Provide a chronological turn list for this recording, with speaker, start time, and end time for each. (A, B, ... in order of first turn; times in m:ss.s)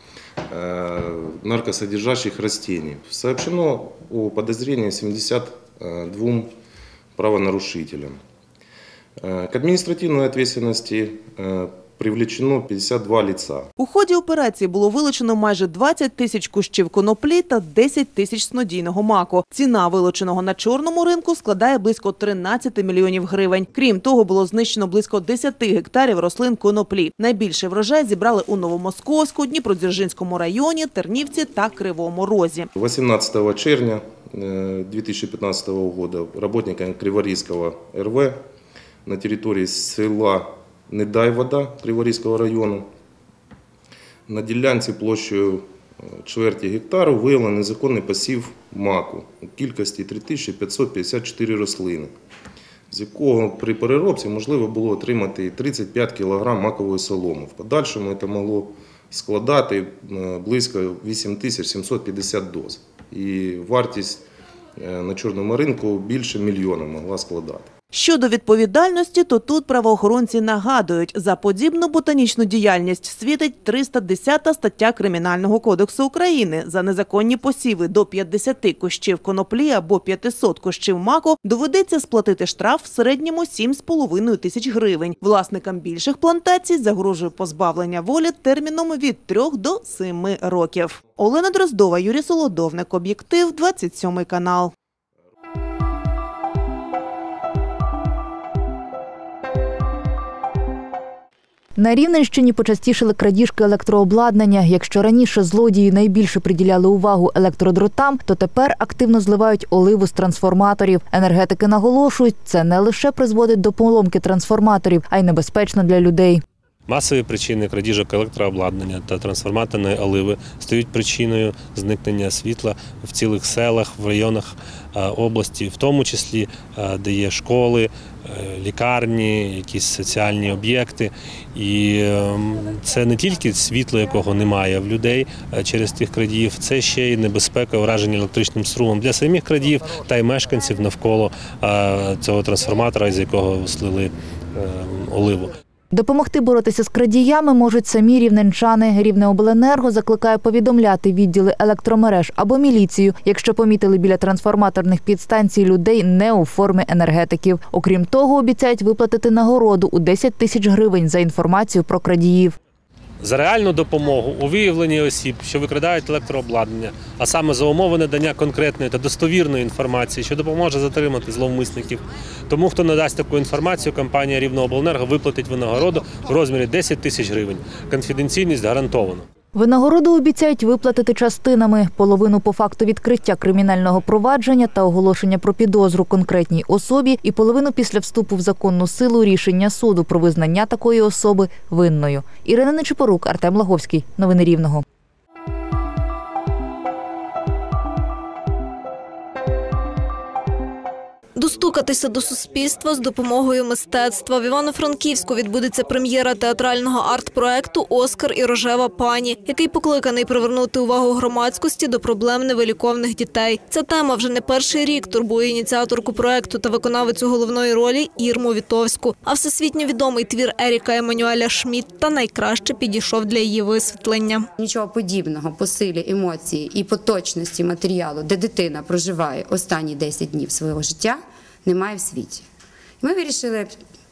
0:00.5-0:06.5 A
0:07.2-0:08.2 A
0:09.2-0:13.7 A
0:13.8-0:32.7 B
0:32.8-0:38.4 A
0:39.0-0:42.9 A
0:44.3-0:52.1 A
0:52.9-1:04.2 A
1:04.8-1:07.7 A
1:07.9-1:34.7 B
1:41.8-1:56.4 C
1:56.9-2:25.6 D
2:25.9-2:42.6 C
2:43.2-2:59.3 D
2:59.5-3:14.8 C
3:21.4-3:44.5 E
3:44.6-3:52.4 F
3:53.0-3:53.9 F